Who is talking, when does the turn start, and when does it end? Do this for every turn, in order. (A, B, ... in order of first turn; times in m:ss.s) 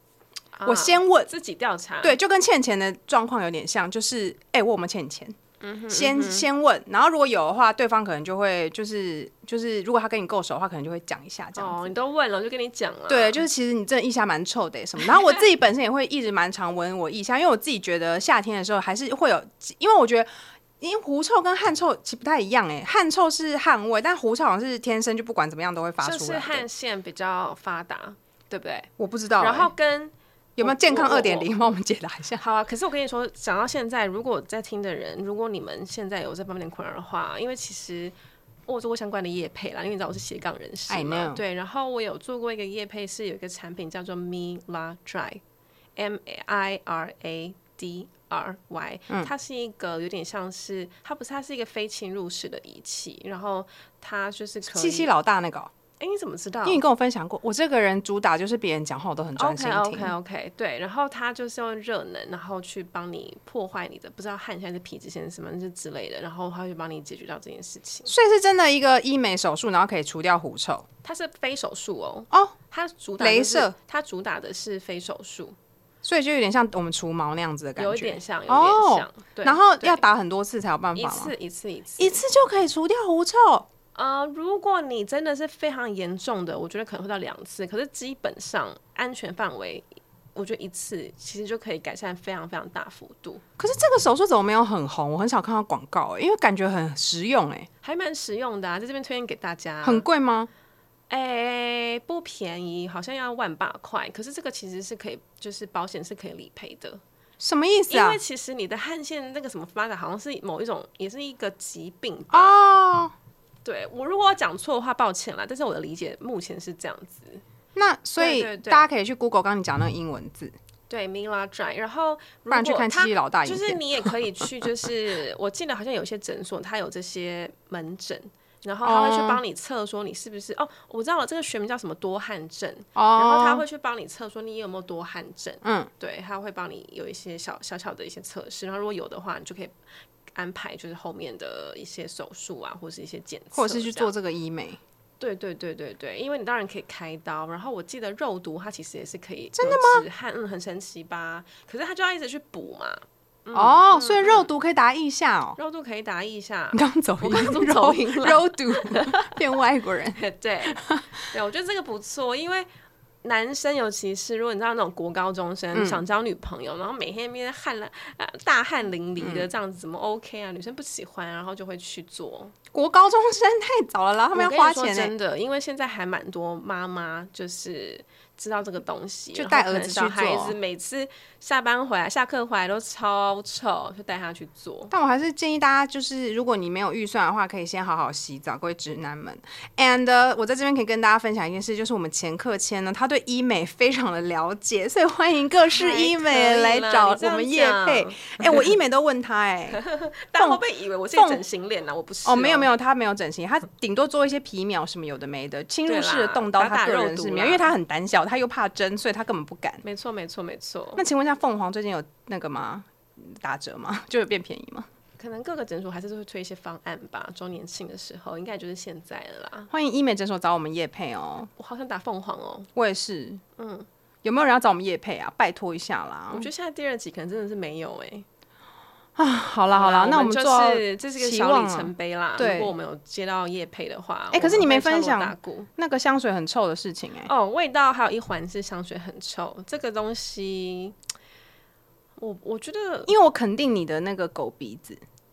0:00.6-0:02.2 A
0:00.6-0:01.3 B
0:02.0-0:05.4 B
0:05.6-0:06.5 A
0:05.9-0:11.9 B
0:11.6-0:13.4 A
0:13.1-0:26.6 B
0:26.0-0:31.5 A
0:29.0-0:29.7 B
0:30.6-0:32.4 B
0:32.4-0:38.1 A
0:38.7-0:45.4 A
0:40.9-0:41.4 B
0:46.0-0:55.1 A
0:54.7-0:55.7 B
0:56.0-0:56.8 A
0:56.6-1:00.1 B
0:59.4-1:08.1 A
1:08.1-1:10.8 B
1:11.0-1:15.6 A
1:13.2-1:13.7 B
1:16.0-1:21.3 B
1:17.8-1:20.0 A
1:20.9-1:22.2 A
1:22.0-1:23.7 B
1:23.9-1:33.4 A
1:33.6-1:37.7 B
1:37.8-1:40.0 A
1:39.8-1:40.5 B
1:41.1-1:47.0 A
1:47.4-1:48.2 B
1:47.9-1:52.6 A
1:52.3-1:53.1 B
1:53.6-1:57.4 A
1:57.7-2:00.5 B
1:58.2-1:58.9 A
2:00.9-2:19.7 A
2:02.5-2:04.4 B
2:08.8-2:09.4 B
2:13.0-2:13.6 B
2:15.6-2:15.9 B
2:20.3-2:24.1 A
2:23.5-2:24.8 B
2:25.2-2:34.5 A
2:29.6-2:30.0 B
2:33.5-2:35.6 B
2:35.6-2:39.4 A
2:36.7-2:40.2 B
2:40.1-2:42.7 A
2:40.7-2:41.0 B
2:43.2-2:52.5 A
2:45.7-2:46.0 B
2:49.2-2:49.5 B
2:52.7-2:55.1 B
2:54.3-3:04.9 A
2:59.3-3:00.6 B
3:04.9-3:19.8 B
3:15.7-3:18.7 A
3:19.7-3:22.7 A
3:21.1-3:21.4 B
3:22.2-3:29.8 B
3:25.8-3:27.7 A
3:29.8-3:31.0 A
3:31.0-3:34.9 B
3:35.2-3:39.7 A
3:39.7-3:41.5 B
3:41.6-3:42.7 A
3:42.7-3:43.4 B
3:43.6-3:43.9 A
3:44.2-3:46.5 B
3:46.3-3:48.2 A
3:49.2-3:52.7 B
3:49.7-3:55.7 A
3:54.3-3:57.3 B
3:57.2-4:00.9 A
4:02.2-4:03.1 A
4:03.1-4:05.0 B